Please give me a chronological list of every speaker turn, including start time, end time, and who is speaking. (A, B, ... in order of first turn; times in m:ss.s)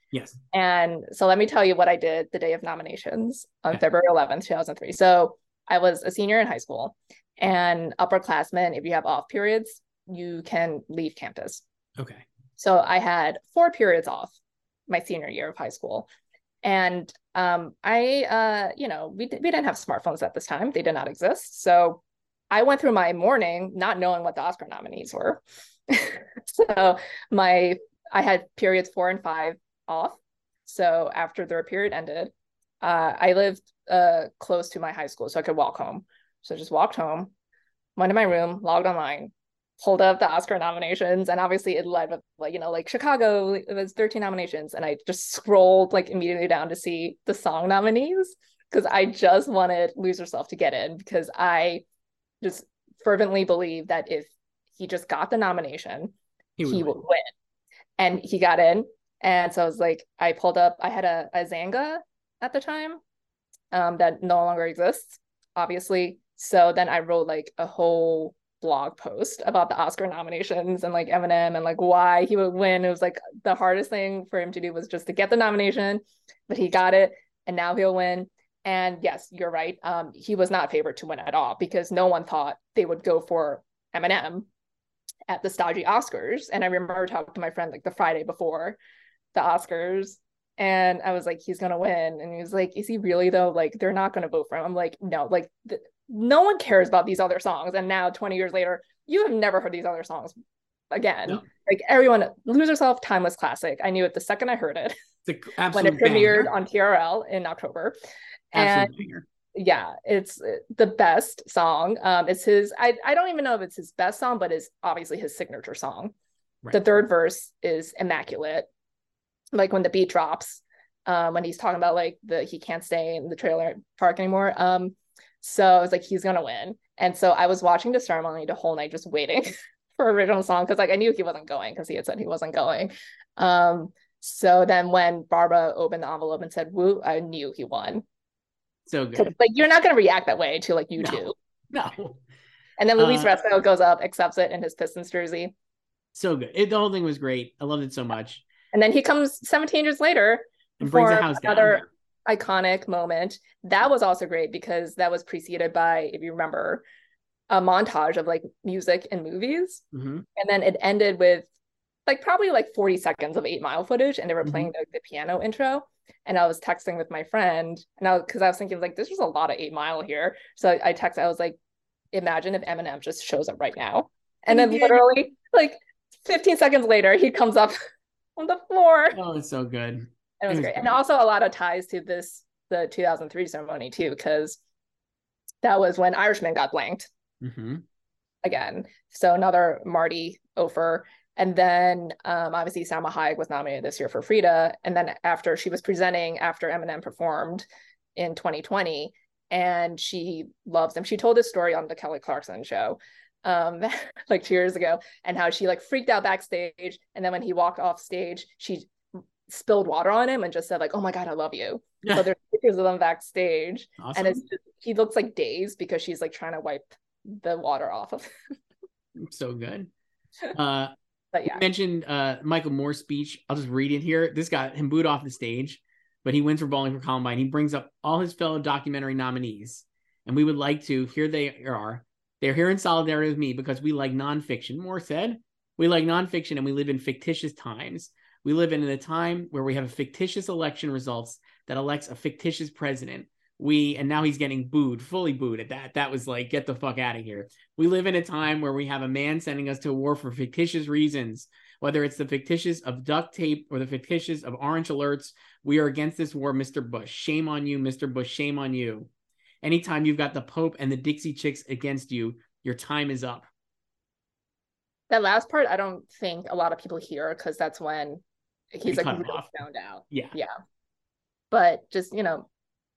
0:00.1-0:00.4 A
0:00.5-0:11.6 B
0:12.0-0:12.2 A
0:12.6-0:14.3 B
0:14.9-0:16.1 B
0:16.6-0:32.3 B
0:32.8-0:37.3 B
0:38.0-0:51.8 B
0:52.4-0:56.1 B
0:56.6-0:56.9 A
0:56.6-0:57.3 B
0:58.0-1:03.0 B
1:03.7-1:24.5 B
1:25.3-1:28.8 B
1:29.3-1:40.3 B
1:40.9-1:44.9 B
1:45.2-1:46.5 A
1:45.7-1:47.9 B
1:48.5-1:48.9 B
1:48.5-1:49.2 A
1:49.5-1:56.1 B
1:56.7-1:58.7 B
1:59.5-2:18.0 B
2:18.9-2:19.3 A
2:19.1-2:21.3 B
2:21.0-2:22.2 A
2:22.8-2:25.5 B
2:23.0-2:23.4 A
2:26.1-2:28.4 A
2:28.7-2:36.8 B
2:30.8-2:31.9 A
2:37.5-2:39.8 B
2:39.9-2:40.2 A
2:40.4-2:41.5 B
2:42.1-2:51.6 B
2:44.4-2:44.7 A
2:52.1-2:57.8 B
2:54.5-2:55.0 A
2:58.4-2:59.2 B
2:59.1-3:00.9 A
3:00.4-3:04.6 B
3:05.6-3:07.1 B
3:07.4-3:07.8 A
3:08.4-3:17.6 B
3:18.2-3:28.9 B
3:29.5-3:38.3 B
3:34.0-3:34.4 A
3:39.2-3:39.9 A
3:40.5-3:40.9 A
3:41.3-3:41.6 B
3:41.5-4:19.1 A
4:19.6-4:23.5 A
4:25.1-4:28.2 B
4:28.7-4:30.5 B
4:28.9-4:29.5 A
4:31.5-4:32.5 B